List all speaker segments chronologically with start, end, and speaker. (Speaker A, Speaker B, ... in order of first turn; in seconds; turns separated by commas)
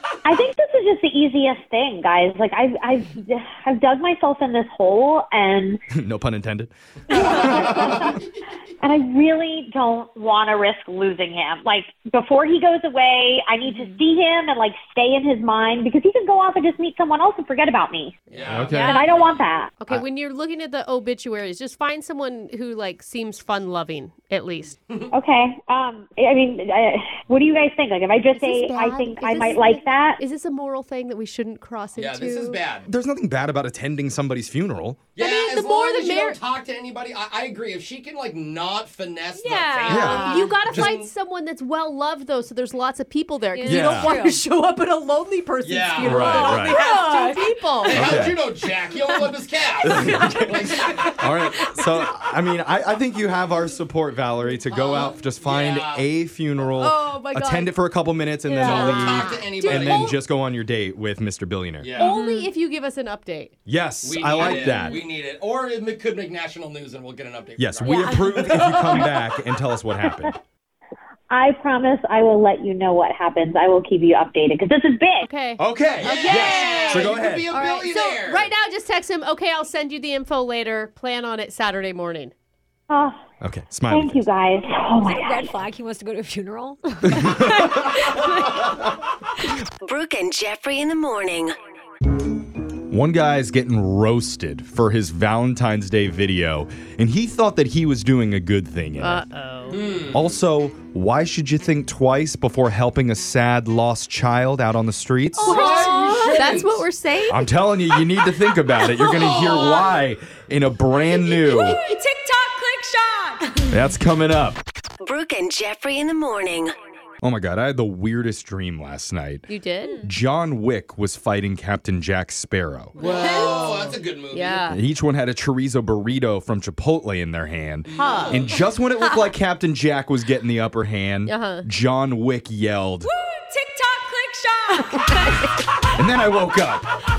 Speaker A: 0.2-5.8, Speaker B: 5.9-7.9, Speaker A: 7.1-8.1, Speaker C: 7.4-8.2, Speaker A: 8.8-18.2, Speaker D: 13.7-14.0, Speaker C: 18.3-19.4, Speaker B: 18.5-18.9, Speaker D: 18.7-19.1, Speaker A: 18.8-19.7, Speaker E: 19.8-24.8, Speaker A: 25.1-30.2, Speaker E: 28.3-32.6, Speaker C: 32.0-32.9, Speaker B: 32.9-35.1, Speaker C: 35.1-41.0, Speaker E: 35.2-36.4, Speaker D: 39.4-40.6, Speaker B: 39.9-40.9, Speaker E: 40.1-48.1, Speaker D: 43.5-44.4, Speaker B: 43.6-44.1, Speaker C: 45.6-46.4, Speaker B: 46.0-46.8, Speaker D: 46.0-48.0, Speaker C: 47.9-51.1, Speaker B: 47.9-48.4, Speaker D: 49.0-49.2, Speaker B: 49.8-62.0, Speaker D: 49.8-52.1, Speaker C: 54.7-56.1, Speaker E: 56.8-57.7, Speaker D: 58.5-59.3, Speaker E: 58.6-60.1, Speaker C: 58.6-60.1, Speaker C: 61.8-62.1, Speaker E: 62.0-63.5, Speaker D: 62.0-62.5, Speaker B: 63.6-65.0, Speaker C: 64.0-68.3, Speaker D: 64.5-65.0, Speaker B: 67.6-70.4, Speaker D: 67.8-69.1, Speaker A: 71.3-75.3, Speaker E: 75.2-82.3, Speaker B: 75.6-77.5, Speaker C: 76.0-78.5, Speaker A: 82.9-83.2, Speaker B: 83.4-84.3, Speaker A: 83.9-85.5, Speaker D: 85.0-88.8, Speaker B: 87.1-88.0, Speaker F: 89.8-91.5, Speaker B: 92.9-99.2, Speaker E: 99.0-99.8, Speaker C: 99.7-100.3, Speaker B: 100.1-105.7, Speaker E: 105.4-107.4, Speaker D: 105.4-106.2, Speaker C: 105.4-106.8, Speaker B: 107.3-111.8, Speaker C: 109.1-109.9, Speaker D: 109.4-109.8, Speaker D: 111.1-113.8, Speaker B: 113.7-114.6, Speaker F: 115.0-116.7, Speaker B: 117.2-119.5, Speaker E: 119.5-120.0, Speaker B: 120.0-123.0, Speaker D: 123.0-123.8, Speaker C: 123.0-124.7, Speaker E: 123.0-124.8, Speaker B: 124.7-133.1, Speaker C: 127.9-128.6, Speaker E: 128.0-128.4, Speaker D: 129.0-129.3, Speaker E: 131.3-131.6, Speaker D: 133.0-135.5, Speaker B: 135.9-137.0